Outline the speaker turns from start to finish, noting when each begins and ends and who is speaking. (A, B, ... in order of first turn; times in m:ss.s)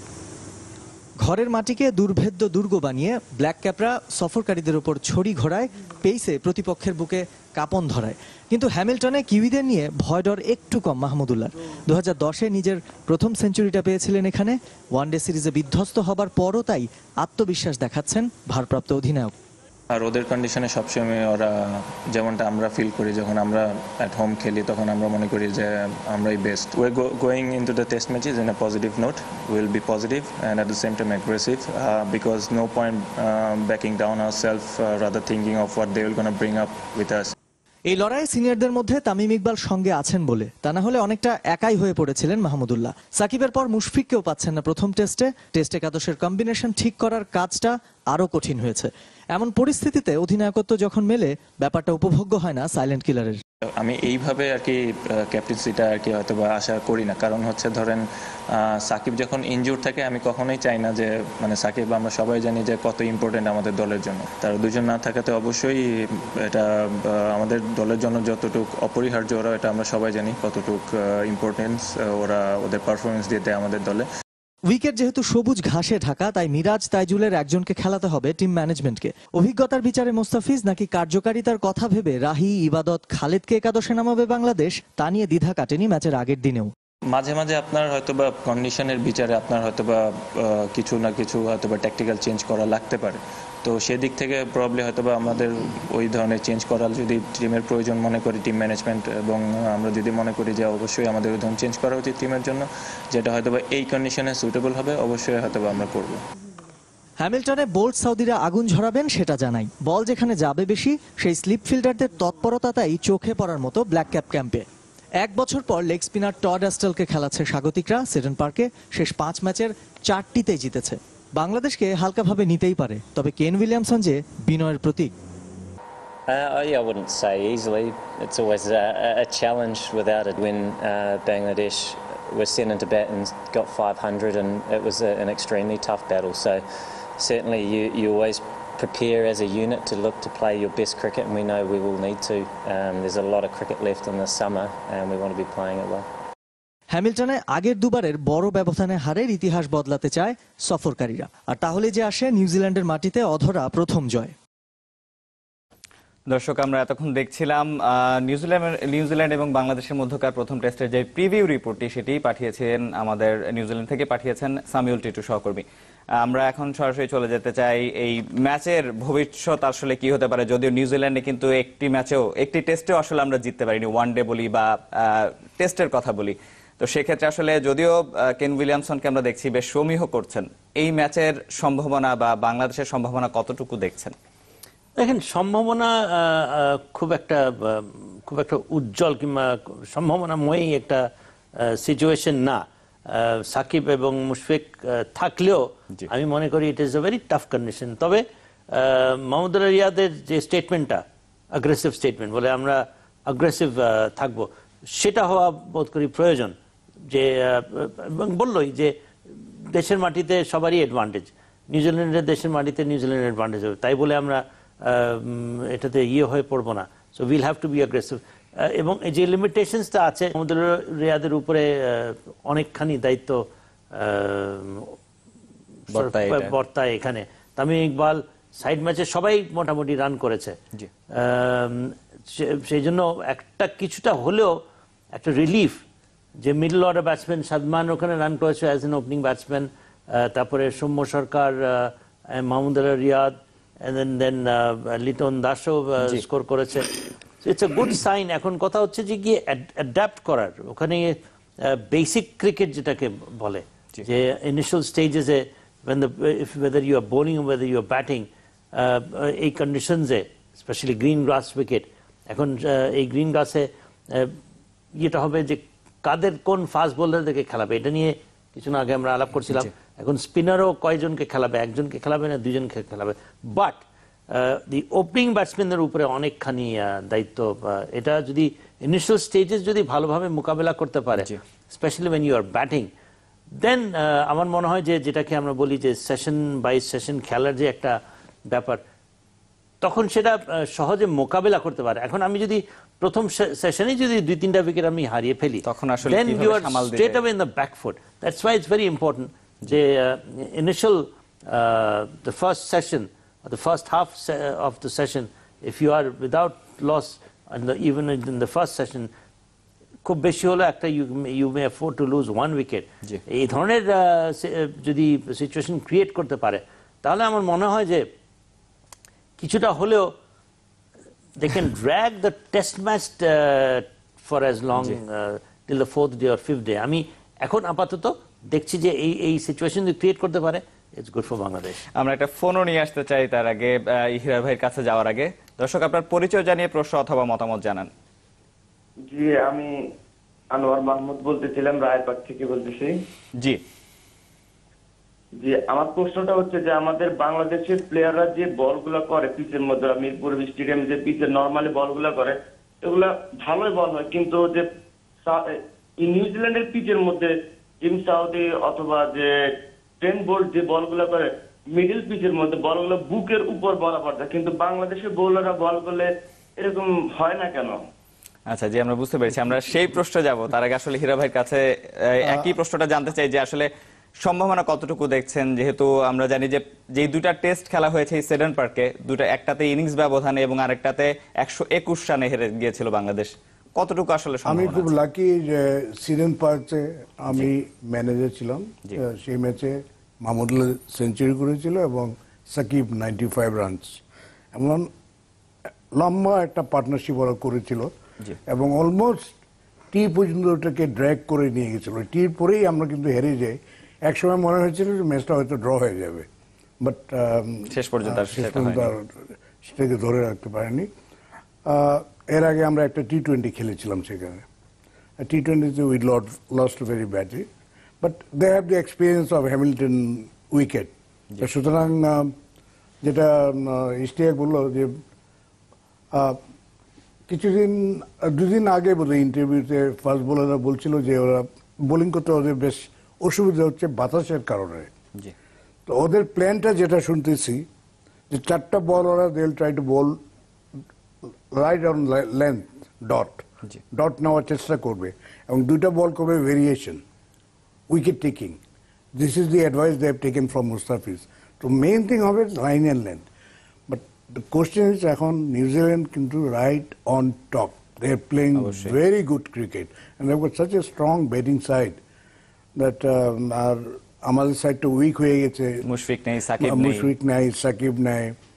0:01.2-0:19.3 A
0:19.9-0:37.3 B
0:37.9-0:53.4 A
0:53.7-1:14.1 B
1:14.7-1:26.7 A
1:27.1-1:46.2 B
1:47.2-1:54.6 A
1:55.2-2:05.1 A
2:06.3-2:26.1 C
2:26.9-2:34.3 A
2:36.3-2:45.6 D
2:46.2-3:04.1 D
3:05.0-3:26.5 E
3:27.1-3:45.0 E
3:45.9-3:50.6 E
3:45.9-3:46.5 D
3:51.1-3:54.6 E
3:55.1-3:55.8 E
3:56.4-4:24.4 E
4:24.9-4:42.9 E
4:43.6-4:48.8 E
4:49.8-5:09.1 E
4:55.6-4:57.2 D
5:10.0-5:18.1 E
5:19.4-5:20.2 E
5:21.4-5:31.8 E
5:31.9-5:37.9 D
5:39.1-5:39.7 F
5:40.5-5:43.0 F
5:45.4-5:54.7 F
5:55.2-5:59.3 F
6:00.0-6:07.9 F
6:08.5-6:24.9 D
6:24.4-6:34.0 G
6:34.5-6:34.9 G
6:35.9-6:37.9 G
6:38.4-6:39.4 G
6:39.9-6:46.3 G
6:46.8-6:50.9 G
6:47.7-6:48.9 D
6:51.6-6:54.5 G
6:55.2-6:57.5 G
6:58.0-7:02.4 G
7:03.0-7:05.0 G
7:06.1-7:06.4 G
7:07.3-7:14.9 G
7:15.8-7:17.6 G
7:18.3-7:20.2 G
7:21.5-7:27.0 G
7:27.9-7:28.6 G
7:29.1-7:33.3 G
7:33.9-7:42.0 G
7:38.5-7:38.9 D
7:42.7-7:45.8 G
7:45.8-7:47.1 D
7:46.6-7:48.4 G